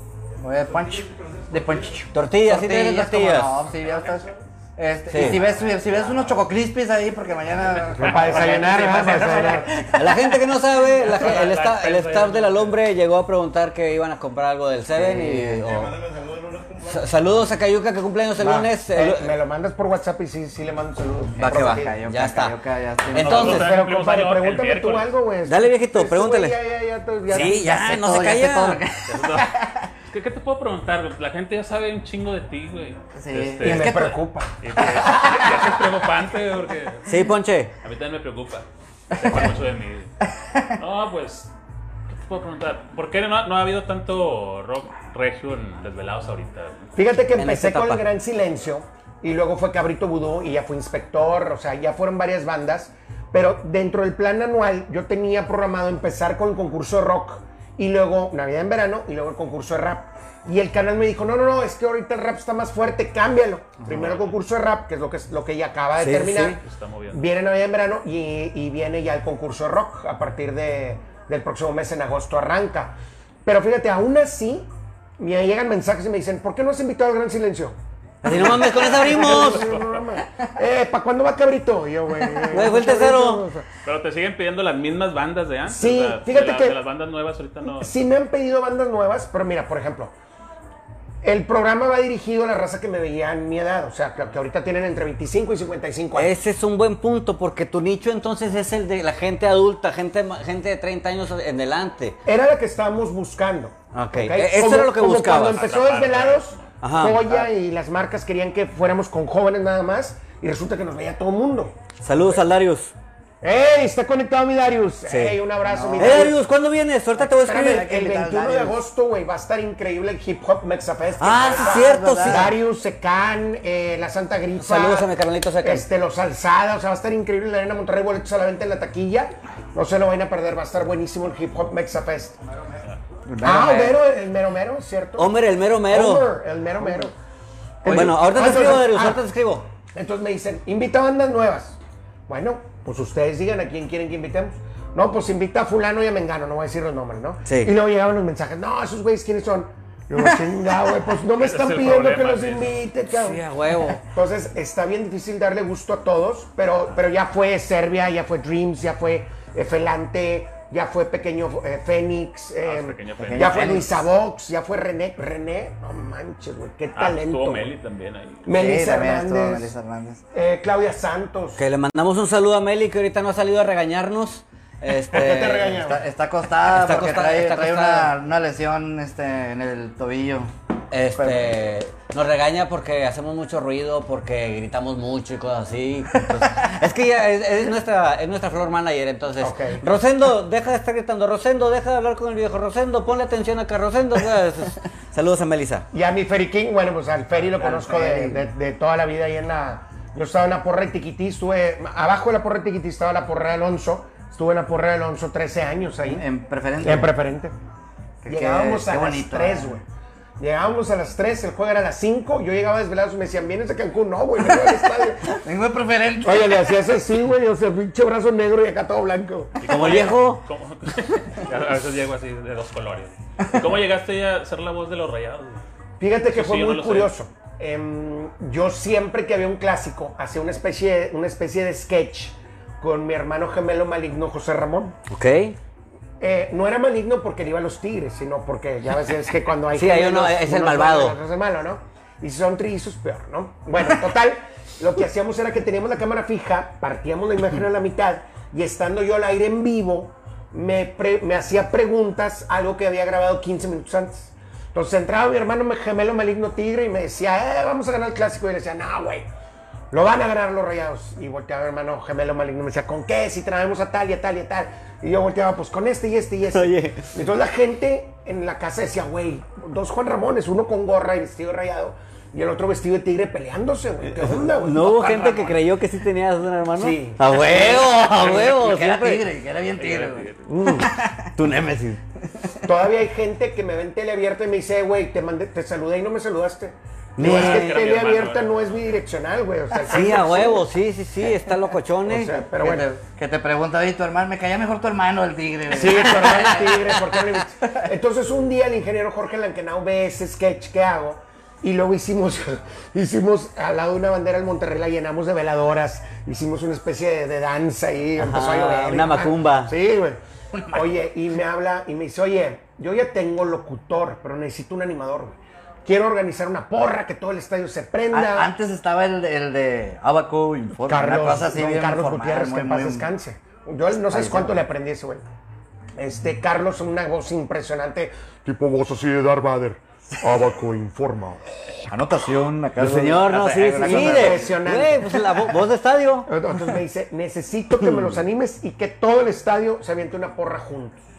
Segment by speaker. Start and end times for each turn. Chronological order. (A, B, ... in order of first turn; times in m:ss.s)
0:00.4-0:10.4 A
0:00.7-0:02.1 B
0:02.1-0:03.6 C
0:03.8-0:04.4 B
0:05.1-0:05.4 C
0:05.2-0:06.4 B
0:07.9-0:09.6 D
0:08.0-0:09.7 E
0:09.9-0:16.0 C
0:10.8-0:12.8 D
0:14.9-0:15.7 A
0:15.6-0:17.1 B
0:16.9-0:19.3 C
0:18.4-0:21.9 E
0:21.4-0:22.6 C
0:21.4-0:23.7 A
0:23.1-0:23.7 C
0:23.2-0:25.1 D
0:23.3-0:27.6 E
0:25.5-0:26.6 C
0:27.3-0:28.8 C
0:27.3-0:29.9 A
0:29.1-0:29.5 D
0:30.1-0:34.1 D
0:33.2-0:34.2 A
0:33.6-0:34.5 E
0:34.6-0:37.1 D
0:34.8-0:35.8 A
0:37.1-0:37.7 C
0:37.8-0:40.1 D
0:40.8-0:41.5 D
0:42.1-0:46.9 D
0:47.0-1:06.6 E
0:47.4-0:48.0 C
1:03.9-1:04.4 D
1:06.0-1:06.6 C
1:06.6-1:07.2 D
1:07.1-1:23.7 E
1:18.2-1:19.7 C
1:18.6-1:20.0 D
1:22.5-1:23.4 C
1:23.8-1:27.9 D
1:25.7-1:26.8 E
1:27.6-1:30.1 E
1:31.2-1:36.3 E
1:36.2-1:42.2 C
1:42.2-1:51.8 E
1:43.9-1:45.7 C
1:45.3-1:46.7 D
1:46.8-1:47.4 C
1:52.0-1:52.9 C
1:53.4-1:56.4 E
1:55.1-1:55.4 C
1:55.6-1:56.4 A
1:56.0-1:57.9 C
1:57.2-2:05.1 E
1:57.3-1:58.8 A
2:01.2-2:02.5 C
2:01.4-2:02.5 A
2:04.6-2:05.9 C
2:05.6-2:12.4 E
2:13.3-2:14.0 A
2:13.4-2:15.3 E
2:13.5-2:13.8 C
2:15.2-2:16.3 C
2:15.9-2:17.2 E
2:17.8-2:19.2 E
2:17.9-2:19.7 C
2:17.9-2:18.2 A
2:19.9-2:33.4 E
2:27.5-2:27.7 C
2:31.4-2:32.8 D
2:33.1-2:34.0 C
2:34.0-2:47.7 E
2:42.6-2:44.0 D
2:43.2-2:44.0 A
2:47.0-2:48.4 D
2:48.4-2:49.7 E
2:48.5-2:50.2 A
2:50.3-2:51.6 E
2:51.6-2:55.8 C
2:55.1-2:56.0 E
2:55.7-3:00.5 A
2:56.7-2:58.1 C
3:00.9-3:15.9 C
3:01.2-3:01.6 A
3:09.4-3:09.8 E
3:15.9-3:26.2 E
3:17.6-3:18.4 A
3:26.0-3:27.1 A
3:26.8-3:27.6 E
3:28.2-3:29.8 A
3:28.2-3:29.8 E
3:30.4-3:35.4 E
3:35.2-3:36.6 A
3:36.2-3:39.6 E
3:39.6-3:45.6 D
3:39.6-3:40.4 C
3:46.0-3:55.0 E
3:46.3-3:47.1 D
3:55.1-3:55.6 C
3:56.2-4:19.3 E
3:59.7-4:01.2 C
4:19.9-4:35.6 E
4:26.5-4:27.1 C
4:34.1-4:39.2 C
4:36.8-4:37.8 E
4:37.3-4:41.3 A
4:39.8-4:40.6 D
4:40.5-4:40.9 E
4:41.4-4:42.0 C
4:42.6-4:50.6 E
4:47.2-4:47.8 C
4:47.2-4:48.8 D
4:49.8-4:52.3 C
4:52.1-4:52.9 E
4:52.6-4:57.1 A
4:55.7-5:18.5 E
5:08.2-5:09.7 C
5:18.1-5:23.1 A
5:20.9-5:25.2 E
5:24.1-5:24.6 A
5:26.0-5:28.1 E
5:28.5-5:31.2 B
5:31.9-5:34.5 A
5:32.8-5:36.3 C
5:33.8-5:35.2 E
5:36.3-5:41.0 E